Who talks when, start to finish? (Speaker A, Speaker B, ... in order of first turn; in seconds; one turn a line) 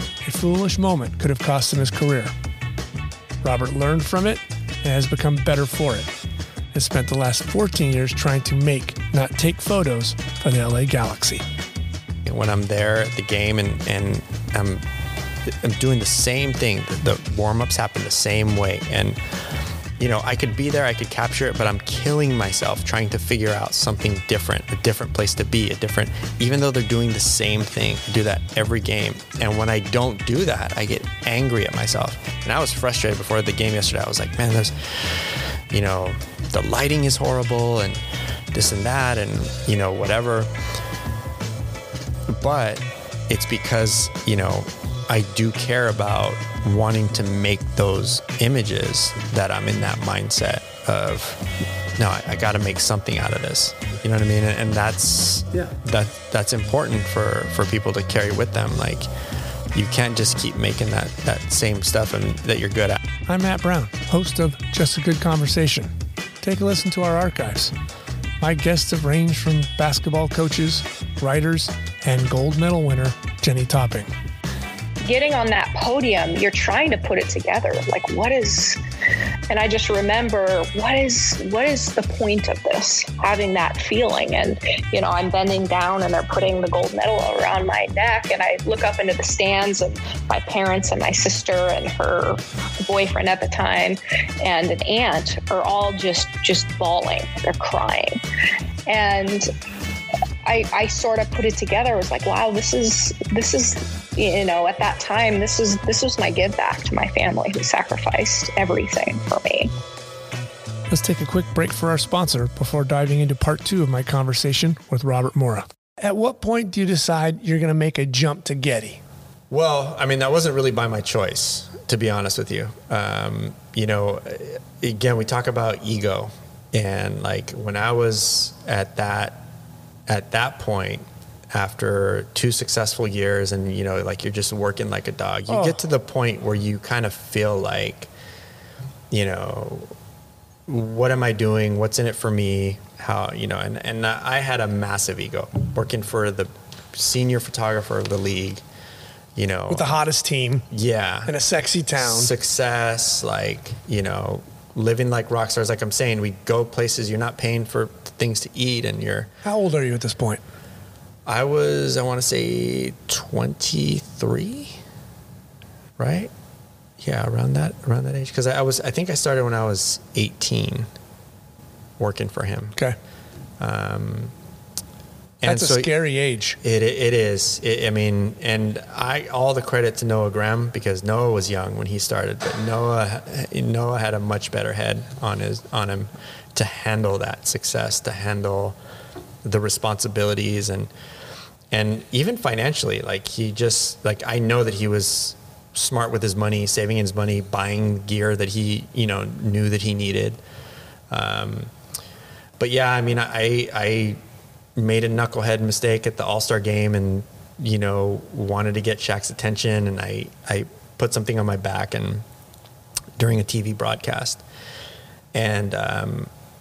Speaker A: 0.2-2.3
Speaker A: 3.4-6.1
Speaker A: 6.7-11.4
Speaker B: 12.3-14.8
Speaker B: 15.4-19.2
Speaker B: 20.0-40.5
Speaker B: 42.3-51.5
Speaker B: 52.0-59.1
Speaker B: 59.7-63.0
Speaker A: 63.2-67.7
Speaker A: 68.4-74.1
Speaker C: 75.0-78.8
Speaker C: 79.5-98.2
Speaker C: 98.9-99.5
Speaker C: 100.4-109.7
Speaker A: 110.9-119.0
Speaker B: 119.5-129.5
Speaker B: 130.1-138.1
Speaker A: 135.5-135.8
Speaker B: 139.1-139.9
Speaker B: 140.7-148.6
Speaker B: 149.4-149.9
Speaker A: 149.7-150.7
Speaker B: 150.7-151.3
Speaker A: 151.2-152.3
Speaker B: 151.9-159.3
Speaker A: 159.4-160.4
Speaker B: 161.2-164.8
Speaker B: 166.0-166.3
Speaker B: 167.0-170.9
Speaker B: 172.0-172.8
Speaker B: 173.6-174.3
Speaker B: 175.4-175.9
Speaker A: 175.4-176.6
Speaker B: 176.6-188.8
Speaker B: 189.4-190.9
Speaker B: 191.7-200.4
Speaker B: 201.1-201.7
Speaker B: 202.6-204.2
Speaker B: 204.8-212.2
Speaker B: 213.2-214.4
Speaker B: 215.3-216.3